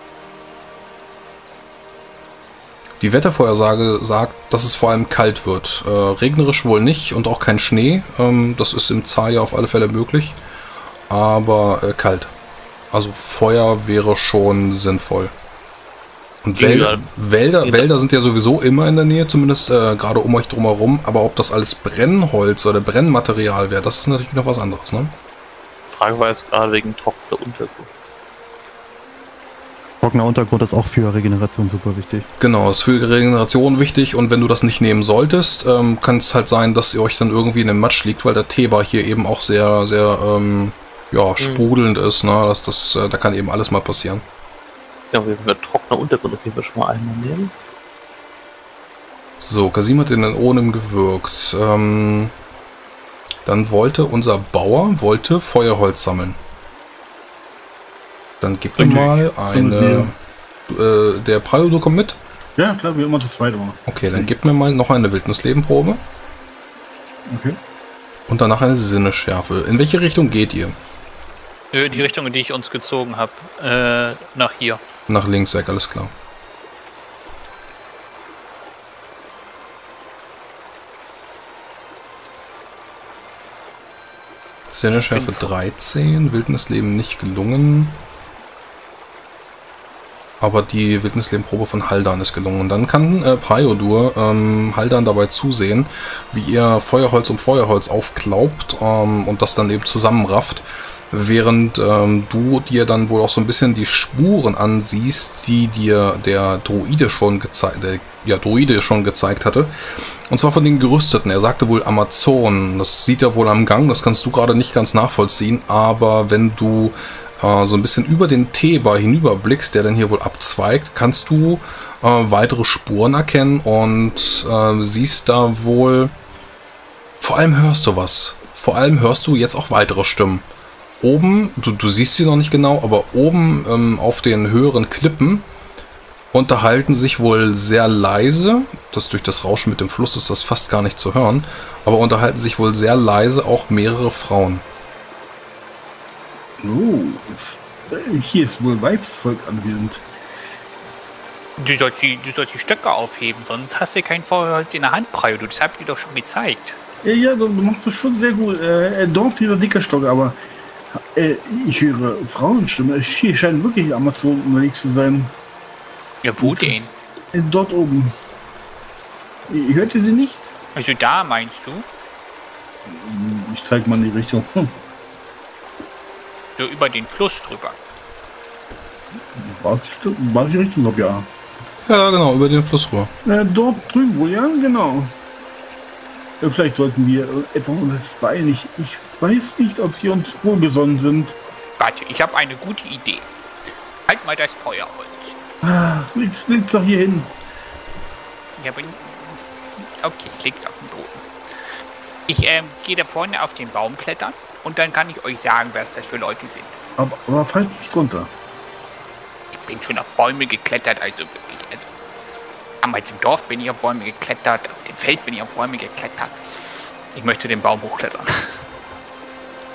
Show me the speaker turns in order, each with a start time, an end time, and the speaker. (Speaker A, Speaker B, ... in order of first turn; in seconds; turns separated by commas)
Speaker A: 3.0-10.4, Speaker A: 11.1-12.3, Speaker A: 12.9-15.3, Speaker A: 16.4-25.1, Speaker B: 16.6-17.1, Speaker B: 17.6-17.9, Speaker B: 25.9-27.9, Speaker C: 30.0-32.2, Speaker A: 32.4-44.2, Speaker B: 41.4-41.7, Speaker B: 45.1-47.5, Speaker A: 49.4-52.3, Speaker A: 53.4-56.4, Speaker A: 58.4-60.1, Speaker D: 58.8-60.1, Speaker A: 60.7-62.2, Speaker D: 62.6-64.3, Speaker A: 63.9-66.0, Speaker D: 67.3-67.6, Speaker A: 68.3-70.8, Speaker E: 71.7-74.8, Speaker A: 75.1-76.1, Speaker A: 84.7-88.0, Speaker E: 85.1-85.5, Speaker A: 90.4-109.7, Speaker A: 110.3-126.1, Speaker A: 127.2-130.4, Speaker A: 131.0-135.4, Speaker A: 136.3-144.6, Speaker D: 146.6-150.1, Speaker E: 151.6-156.8, Speaker D: 157.0-160.4, Speaker D: 160.9-165.3, Speaker E: 166.2-166.9, Speaker D: 166.4-166.8, Speaker D: 167.3-168.1, Speaker D: 169.5-170.5, Speaker E: 170.7-171.8, Speaker D: 172.9-174.7, Speaker E: 176.6-177.8, Speaker D: 179.3-181.3, Speaker A: 181.8-183.1, Speaker D: 183.2-185.1, Speaker D: 186.4-191.4, Speaker E: 191.8-193.3, Speaker E: 194.1-195.3, Speaker D: 195.6-197.3, Speaker E: 198.6-199.4, Speaker E: 200.0-201.2, Speaker E: 202.3-206.7, Speaker D: 207.0-208.3, Speaker E: 209.5-211.9, Speaker E: 212.8-216.4, Speaker E: 217.1-218.3